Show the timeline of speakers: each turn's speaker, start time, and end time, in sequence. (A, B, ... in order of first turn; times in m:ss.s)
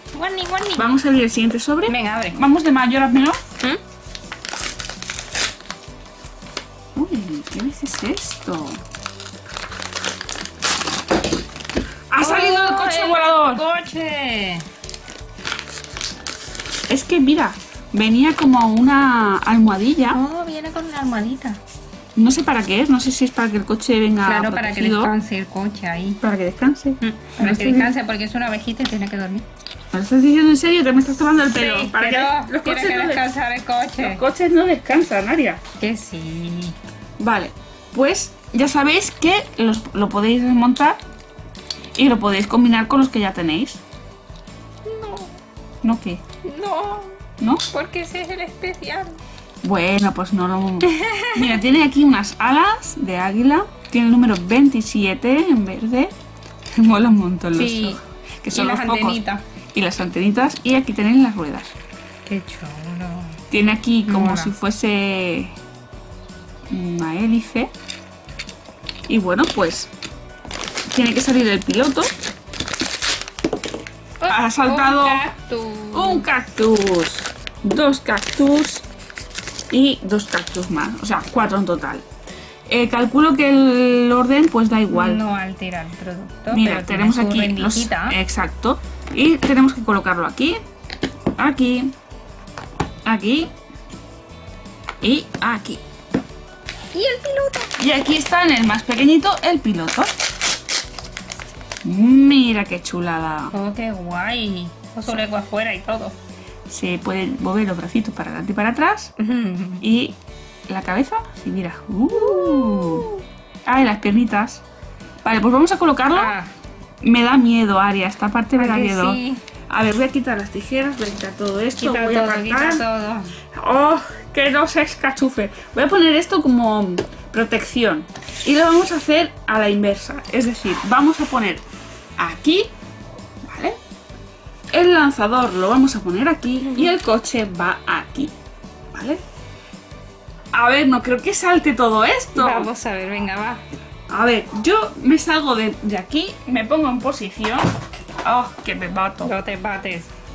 0:00.1-0:00.9 A
0:00.8-0:03.4 B
0:01.9-0:02.4 A
0:07.0-0:08.8 B
0:12.1-0:13.6 B
0:12.2-0:14.6 A
0:16.9-0:20.2 B
0:20.1-0:21.6 A
0:22.2-0:25.1 B
0:24.2-0:26.2 A
0:26.2-0:28.0 B
0:27.0-0:29.5 A
0:29.9-0:33.3 B
0:31.5-0:34.2 A
0:34.0-0:35.6 B
0:35.8-0:36.8 A
0:37.2-0:41.0 B
0:42.0-0:43.8 B
0:44.8-0:45.4 A
0:45.8-0:46.2 B
0:46.5-0:49.2 A
0:47.4-0:47.6 B
0:49.6-0:56.1 B
0:50.8-0:51.5 A
0:56.8-0:59.2 B
0:57.5-0:58.0 A
0:58.5-0:59.4 A
0:59.7-1:01.8 B
1:02.3-1:03.4 A
1:03.5-1:05.5 B
1:04.1-1:04.5 A
1:06.7-1:07.7 B
1:09.1-1:09.9 B
1:10.9-1:12.1 B
1:14.2-1:16.3 A
1:14.3-1:15.3 B
1:15.9-1:18.9 B
1:19.7-1:22.0 B
1:22.7-1:25.2 B
1:24.9-1:28.2 A
1:26.5-1:30.6 B
1:31.4-1:31.9 B
1:33.1-1:33.5 B
1:35.0-1:35.8 B
1:36.9-1:37.7 A
1:37.8-1:40.1 B
1:41.8-1:43.5 B
1:43.5-1:46.2 A
1:46.7-1:49.1 B
1:49.2-1:49.8 A
1:49.8-1:50.2 B
1:50.7-1:53.1 B
1:52.1-1:53.2 A
1:53.7-1:54.6 B
1:55.2-1:56.4 B
1:56.1-1:56.5 A
1:57.0-2:02.8 B
1:58.6-1:59.4 A
2:01.8-2:03.3 A
2:03.6-2:11.6 B
2:12.2-2:12.7 B
2:13.4-2:13.8 B
2:14.7-2:18.3 B
2:18.9-2:19.2 B
2:20.5-2:22.7 B
2:22.4-2:23.6 A
2:24.1-2:27.7 B
2:28.2-2:29.4 B
2:29.2-2:30.1 A